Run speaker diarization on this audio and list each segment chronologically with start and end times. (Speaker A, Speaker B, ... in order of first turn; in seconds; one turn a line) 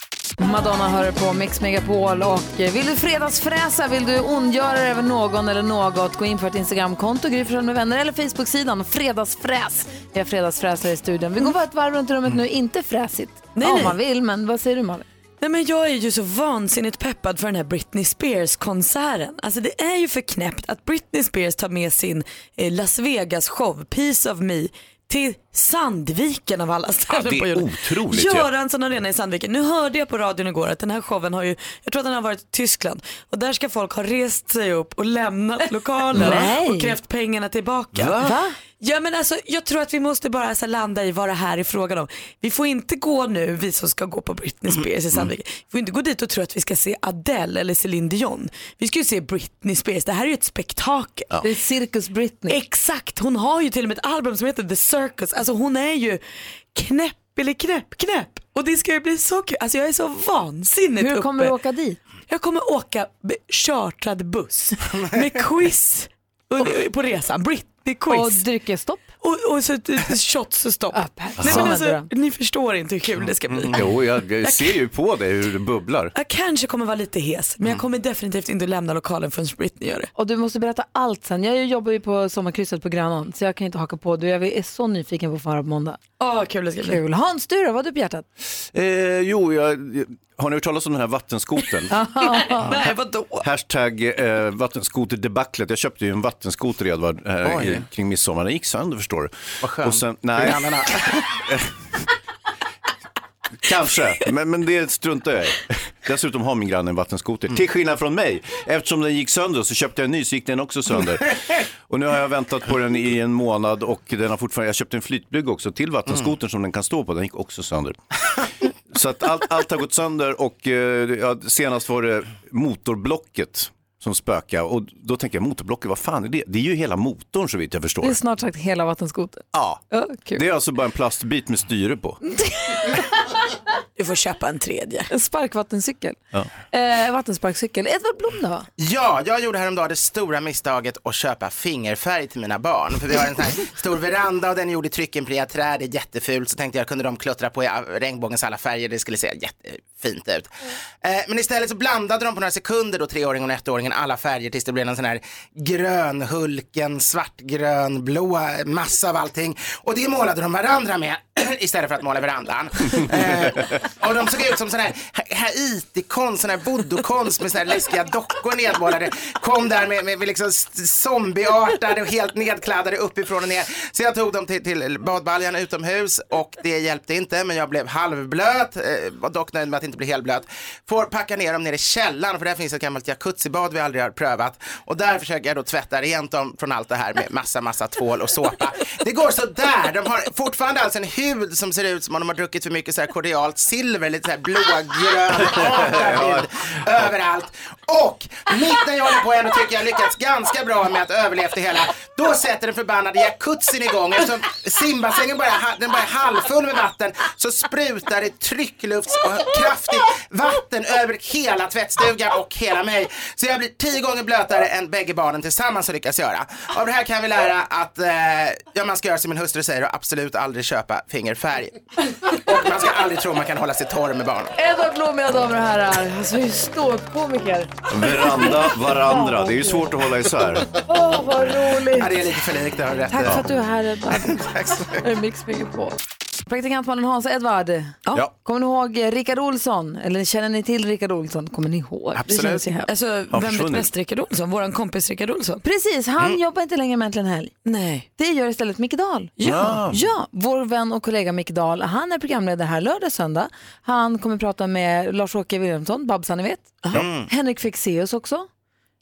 Speaker A: 0.4-15.0
Speaker B: 13.6-13.9
Speaker B: 15.4-51.4
Speaker C: 27.1-28.5
Speaker C: 36.1-36.5
Speaker A: 36.1-36.9
Speaker C: 37.9-38.3
Speaker A: 38.2-38.5
Speaker A: 51.4-52.5
Speaker B: 52.5-56.2
Speaker B: 56.7-61.5
Speaker A: 61.0-62.0
Speaker B: 62.3-68.4
Speaker A: 68.1-69.1
Speaker B: 69.2-73.8
Speaker A: 70.9-72.1
Speaker C: 71.4-71.7
Speaker C: 73.7-76.1
Speaker B: 74.4-74.7
Speaker B: 76.2-80.1
Speaker A: 80.2-86.0
Speaker B: 86.2-87.0
Speaker A: 86.8-88.2
Speaker C: 88.7-91.9
Speaker A: 91.9-92.7
Speaker B: 92.2-93.5
Speaker C: 93.4-101.7
Speaker D: 97.4-97.8
Speaker D: 99.6-101.3
Speaker C: 103.6-128.2
Speaker A: 128.0-130.4
Speaker C: 129.5-129.8
Speaker C: 130.3-132.2
Speaker A: 132.2-133.4
Speaker B: 134.0-135.1
Speaker A: 135.1-136.2
Speaker A: 136.7-138.7
Speaker D: 138.8-150.5
Speaker D: 151.0-224.5
Speaker C: 195.3-196.4
Speaker A: 224.5-228.5
Speaker C: 227.9-230.7
Speaker A: 229.1-229.6
Speaker A: 230.9-232.3
Speaker D: 231.9-233.4
Speaker A: 233.1-235.9
Speaker D: 234.3-235.0
Speaker A: 236.5-242.9
Speaker D: 242.1-242.7
Speaker B: 242.9-245.6
Speaker C: 243.3-243.9
Speaker A: 245.6-247.6
Speaker B: 247.7-248.1
Speaker A: 248.2-249.3
Speaker B: 249.4-249.8
Speaker C: 249.4-250.0
Speaker A: 249.9-258.5
Speaker D: 256.9-257.3